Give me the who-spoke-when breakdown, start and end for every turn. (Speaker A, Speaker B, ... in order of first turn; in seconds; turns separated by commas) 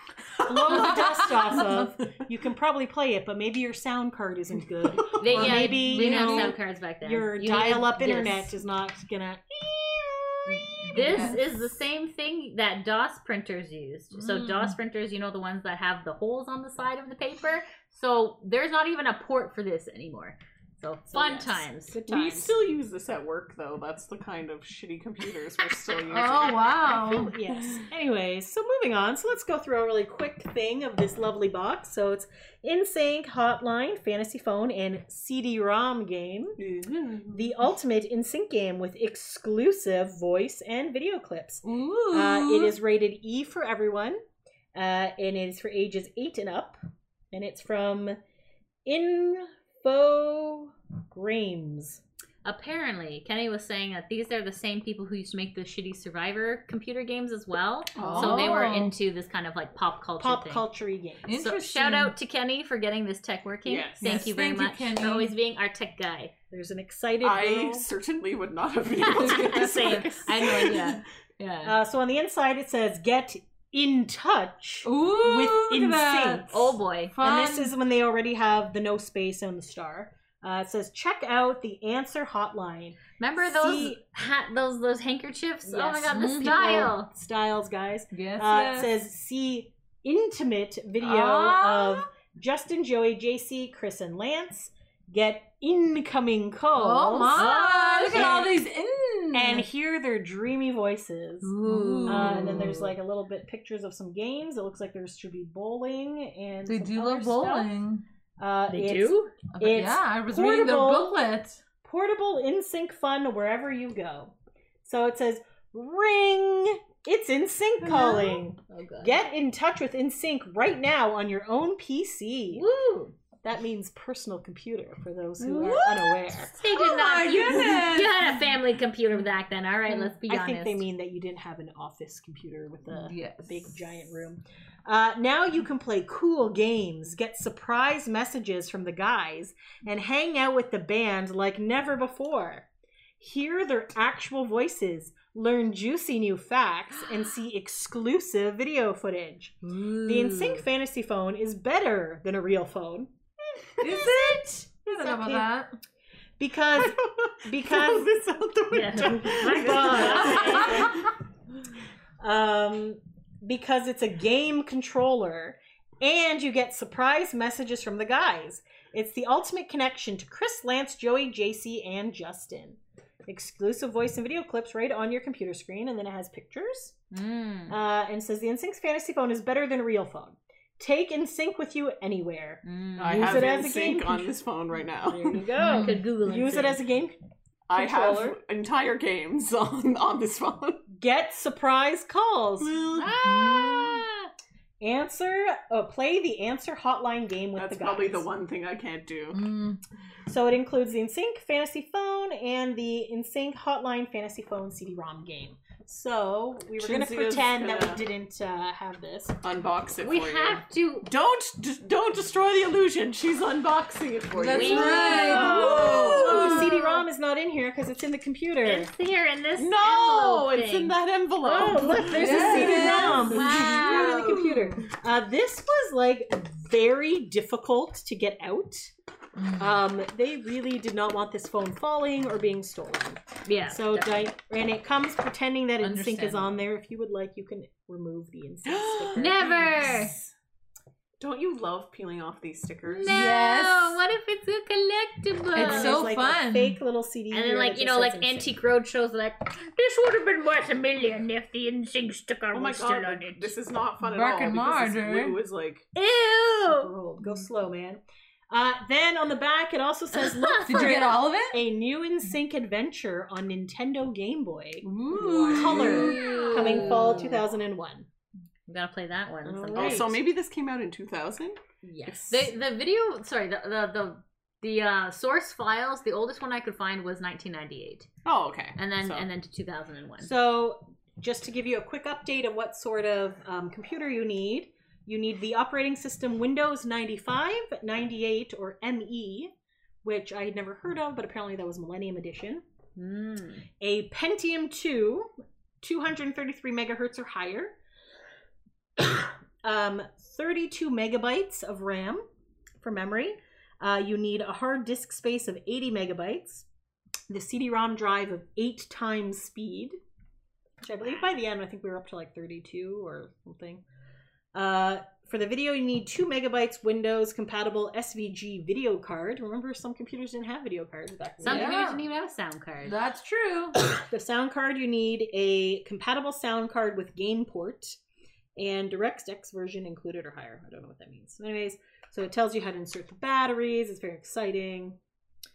Speaker A: 0.4-11.4, Speaker B: 0.7-1.8, Speaker C: 5.2-8.5, Speaker B: 5.3-6.5, Speaker B: 10.6-11.5, Speaker C: 10.9-22.5, Speaker B: 14.1-14.7, Speaker D: 21.1-26.9, Speaker A: 21.9-22.4, Speaker B: 26.1-27.4, Speaker A: 26.9-36.6, Speaker D: 36.6-37.5, Speaker A: 37.3-44.2, Speaker B: 41.6-42.7, Speaker A: 44.7-46.8, Speaker A: 47.3-48.2, Speaker A: 48.9-52.0, Speaker C: 52.4-60.6, Speaker D: 58.0-58.6, Speaker B: 58.1-59.0, Speaker A: 60.2-61.3, Speaker B: 61.3-62.1, Speaker C: 61.3-66.3, Speaker D: 63.6-64.0, Speaker B: 64.0-65.3, Speaker A: 66.5-67.9, Speaker D: 67.2-71.0, Speaker B: 69.1-70.0, Speaker C: 69.1-71.7, Speaker A: 71.6-84.0, Speaker B: 74.8-76.5, Speaker C: 76.5-77.1, Speaker B: 77.1-77.7, Speaker C: 83.2-87.1, Speaker A: 85.7-98.6, Speaker B: 86.1-86.9, Speaker B: 88.1-88.9, Speaker B: 91.0-92.1, Speaker B: 96.8-99.6, Speaker C: 97.3-98.5, Speaker A: 99.3-101.5, Speaker B: 101.4-102.9, Speaker C: 101.6-102.7, Speaker A: 102.0-107.7, Speaker B: 106.7-108.0, Speaker A: 108.4-111.2, Speaker C: 108.7-109.3, Speaker B: 109.5-111.6, Speaker A: 111.8-122.7, Speaker C: 118.7-119.2, Speaker C: 122.5-123.1, Speaker A: 123.4-126.5, Speaker B: 125.4-128.4, Speaker C: 126.6-130.8, Speaker A: 129.9-142.7, Speaker B: 132.9-133.7, Speaker A: 143.2-153.1, Speaker C: 149.6-150.6, Speaker A: 153.8-155.5, Speaker B: 153.8-155.7, Speaker A: 156.4-158.1, Speaker D: 156.8-160.9, Speaker C: 158.7-160.9, Speaker A: 159.1-161.0, Speaker A: 162.2-176.9, Speaker C: 177.1-177.8, Speaker A: 177.7-184.3, Speaker C: 182.6-183.2, Speaker D: 183.0-185.4, Speaker A: 185.0-187.2, Speaker B: 185.6-186.0, Speaker C: 185.6-186.8, Speaker D: 187.7-190.8, Speaker A: 187.7-188.4, Speaker A: 190.9-194.3, Speaker D: 192.6-193.1, Speaker B: 193.2-194.0, Speaker A: 194.8-198.3, Speaker D: 197.6-199.4, Speaker B: 199.3-199.8, Speaker A: 200.3-209.4, Speaker D: 206.8-208.0, Speaker D: 209.4-216.5, Speaker C: 210.0-211.1, Speaker B: 214.3-216.8, Speaker C: 214.5-216.8, Speaker A: 214.6-218.9, Speaker C: 218.6-224.4, Speaker D: 219.6-224.3, Speaker A: 221.8-228.9, Speaker B: 222.1-224.1, Speaker B: 229.3-229.8, Speaker A: 229.6-239.7, Speaker C: 233.4-234.3, Speaker B: 235.8-236.6, Speaker D: 238.7-240.3, Speaker C: 239.2-240.1, Speaker D: 241.2-243.1, Speaker C: 242.9-246.0, Speaker B: 243.1-244.0, Speaker B: 245.5-246.8, Speaker A: 245.6-248.6, Speaker C: 247.3-253.5, Speaker D: 252.5-255.8, Speaker B: 254.0-255.4, Speaker C: 255.9-256.9, Speaker A: 256.6-264.9, Speaker C: 260.1-261.2, Speaker B: 260.6-261.6, Speaker B: 264.8-267.1, Speaker C: 265.2-267.4, Speaker A: 265.4-268.1, Speaker C: 268.7-270.2, Speaker A: 269.7-270.1, Speaker D: 269.7-271.6, Speaker A: 271.8-272.5, Speaker C: 272.1-278.1, Speaker D: 278.2-279.2, Speaker C: 278.8-280.3, Speaker A: 280.2-289.5, Speaker A: 290.0-292.6, Speaker C: 292.9-293.7, Speaker A: 293.8-297.8, Speaker A: 299.0-302.2, Speaker A: 302.8-306.7, Speaker A: 307.3-309.9, Speaker A: 310.8-313.8, Speaker C: 311.0-311.3, Speaker A: 314.5-321.8, Speaker C: 321.4-322.9, Speaker B: 321.4-322.0, Speaker B: 322.9-323.8, Speaker A: 323.9-328.0, Speaker A: 328.6-335.0